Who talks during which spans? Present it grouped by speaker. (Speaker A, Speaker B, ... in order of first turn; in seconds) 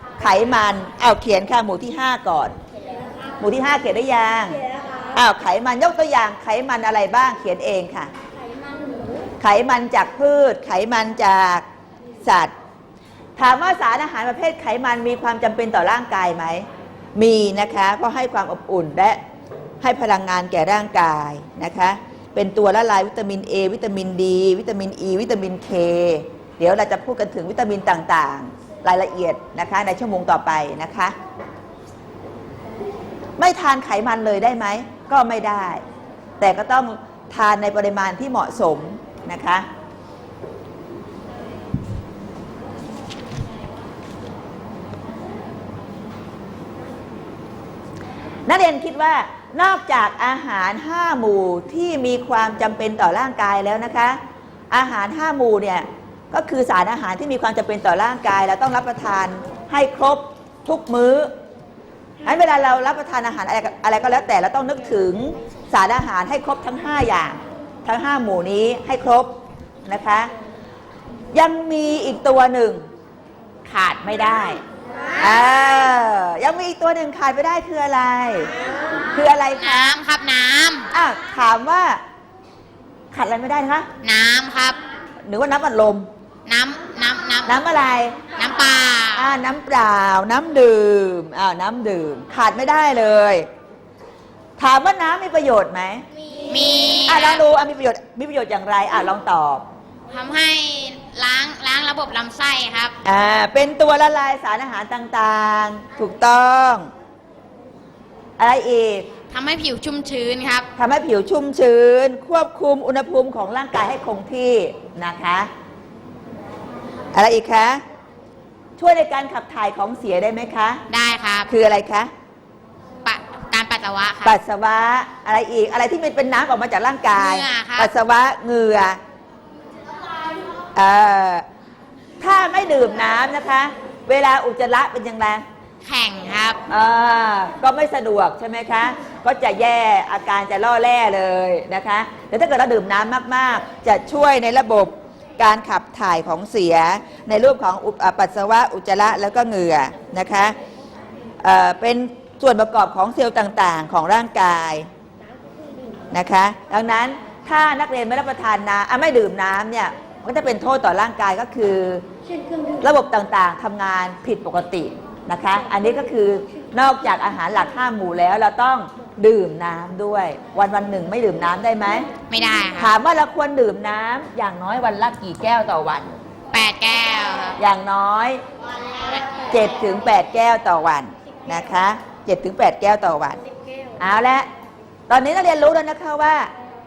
Speaker A: 0.2-2.5, 3.4-4.6, 5.1-8.1, 9.4-11.6, 12.2-12.5, 13.4-19.2, 19.8-31.1, 33.4-35.8, 36.4-39.7, 48.5-54.2, 54.7-61.3, 62.2-69.3, 69.8-70.3, 71.3-72.8, 73.6-74.6, 75.2-78.5, 79.1-80.0, 80.9-82.0, 83.1-83.9, 85.2-86.1, 87.5-88.2, 89.1-93.5, 94.6-96.0, 97.0-99.6, 103.0-106.9, 108.4-109.1, 110.8-115.5, 117.1-117.8, 118.8-120.8, 121.5-122.1, 124.2-129.0, 130.7-131.4, 132.2-135.4, 136.7-150.5, 151.4-154.9, 156.1-162.1, 162.8-172.1, 172.8-176.2, 177.6-178.4, 179.5-183.4, 184.0-184.5, 185.1-186.5
Speaker B: 2.8-3.4, 4.8-5.1, 8.3-9.3, 155.2-156.1, 162.3-162.8, 183.4-184.0
Speaker C: 79.6-80.9, 84.0-84.8, 86.5-87.5, 88.3-89.3, 96.5-97.4, 100.1-102.9, 109.3-110.7, 120.9-121.5, 123.0-124.4, 127.1-127.9, 135.8-136.6, 172.3-172.9, 176.5-177.6